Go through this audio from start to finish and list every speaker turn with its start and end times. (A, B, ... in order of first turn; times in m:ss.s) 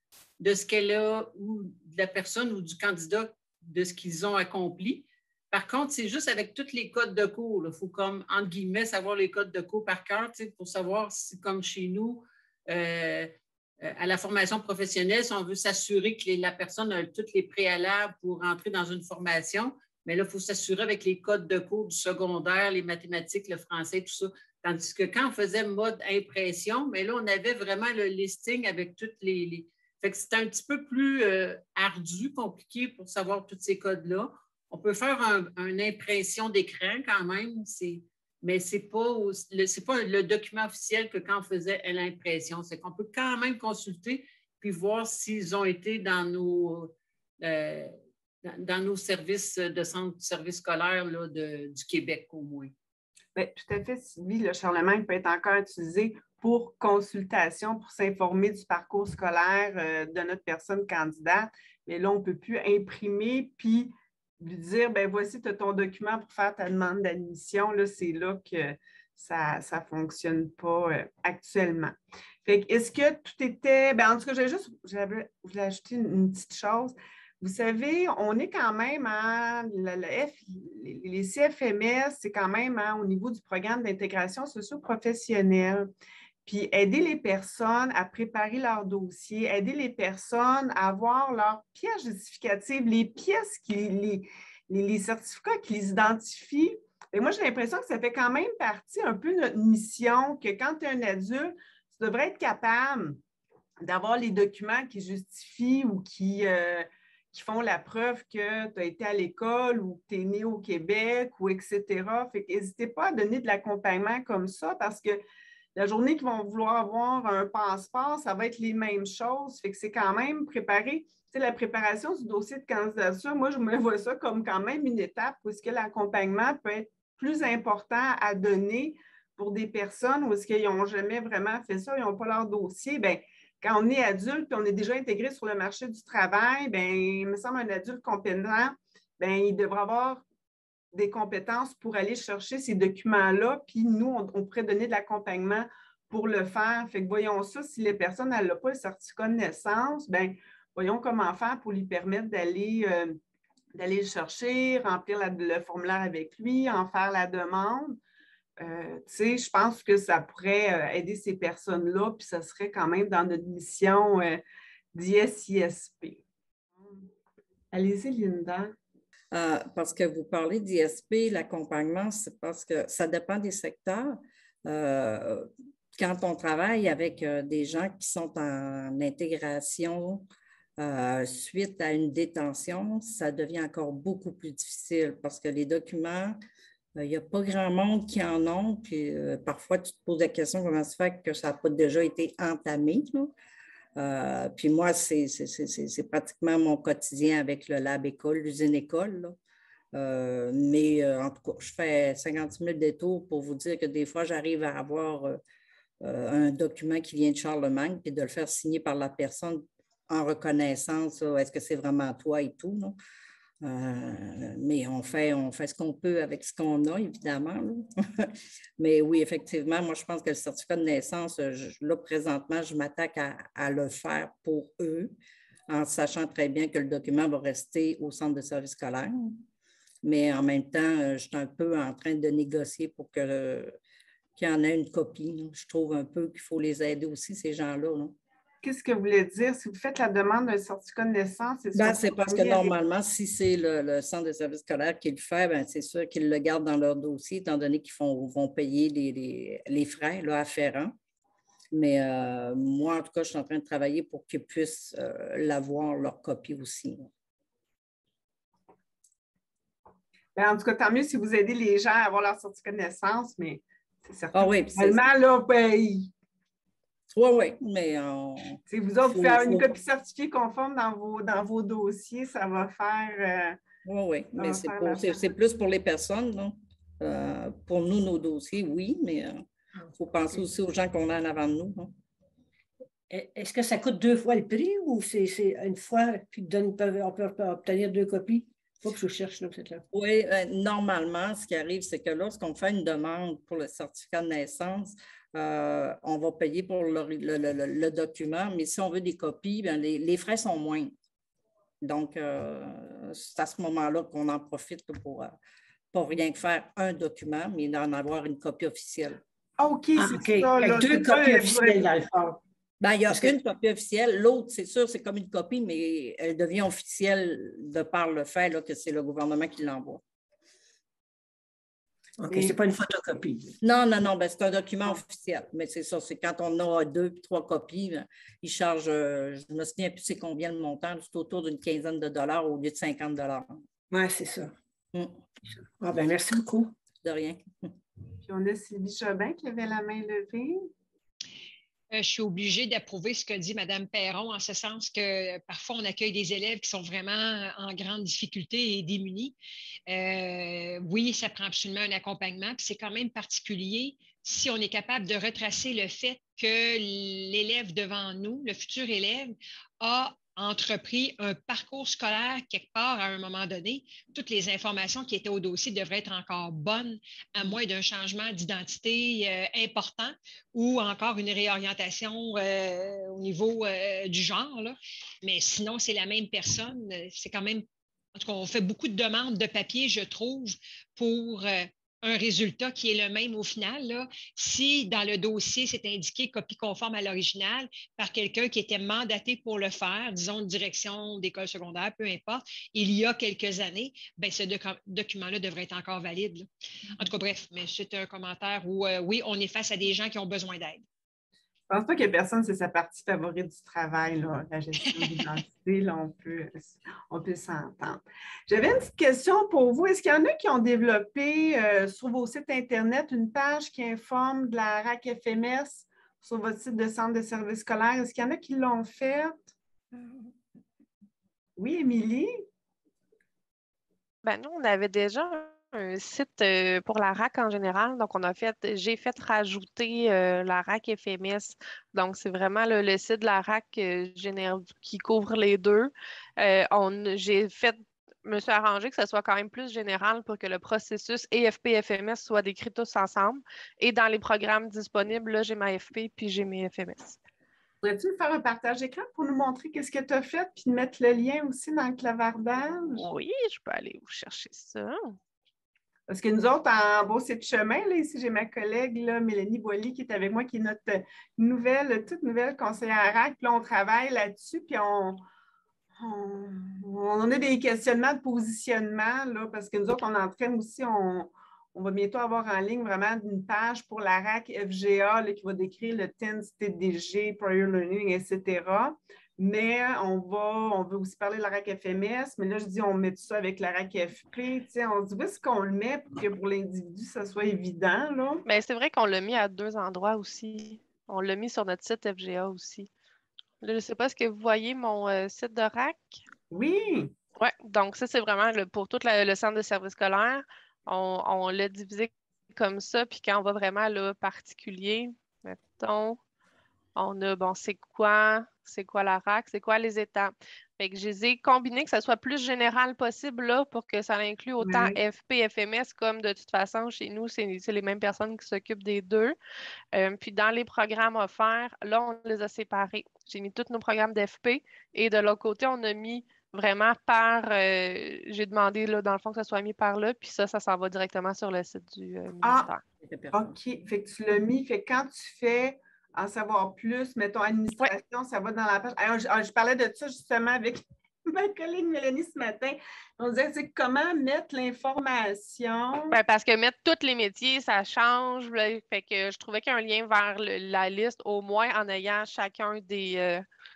0:00.4-0:52.7 A
0:53.3-1:11.9 B
1:12.4-1:25.9 B
1:26.4-1:43.2 B
1:43.8-1:55.2 B
1:55.8-2:20.2 B
2:20.9-2:33.2 B
2:33.8-2:38.0 B
2:38.6-2:44.4 B
2:44.9-2:46.2 B
2:47.7-2:48.7 B
2:49.3-3:00.3 C
3:00.8-3:06.4 C
3:07.0-3:13.3 C
3:14.0-3:19.4 C
3:19.9-3:25.4 C
3:26.0-3:33.0 C
3:33.6-3:45.1 C
3:45.7-3:49.4 C
3:50.0-3:53.7 C
3:54.4-3:58.2 C
3:58.6-4:02.7 B
4:01.7-4:10.9 C
4:11.7-4:17.1 C
4:20.4-4:26.1 B
4:24.3-4:25.0 C
4:27.1-4:29.7 C
4:28.7-4:33.6 B
4:33.8-4:41.9 C
4:34.4-4:35.2 B
4:43.1-4:49.8 D
4:49.9-5:00.9 C
5:01.8-5:05.4 C
5:05.9-5:09.2 C
5:09.6-5:11.8 B
5:10.0-5:12.4 D
5:12.8-5:20.0 C
5:22.2-5:23.5 D
5:23.6-5:33.6 C
5:33.9-5:34.5 D
5:35.8-5:36.7 D
5:37.0-5:37.7 C
5:38.2-5:40.6 B
5:41.9-5:49.4 E
5:49.9-6:40.8 E
6:41.7-6:59.4 B
7:01.6-7:02.4 B
7:04.2-7:27.2 F
7:27.8-7:33.0 B
7:33.0-7:35.2 F
7:36.1-7:45.2 B
7:46.0-8:08.4 B
8:08.4-8:12.9 F
8:13.6-8:16.2 F
8:16.5-8:17.1 B
8:17.4-8:26.2 F
8:26.9-8:39.3 F
8:34.6-8:35.0 B
8:39.9-8:52.8 F
8:52.4-8:52.7 B
8:53.0-8:53.6 C
8:53.3-9:06.2 B
9:06.1-9:13.4 F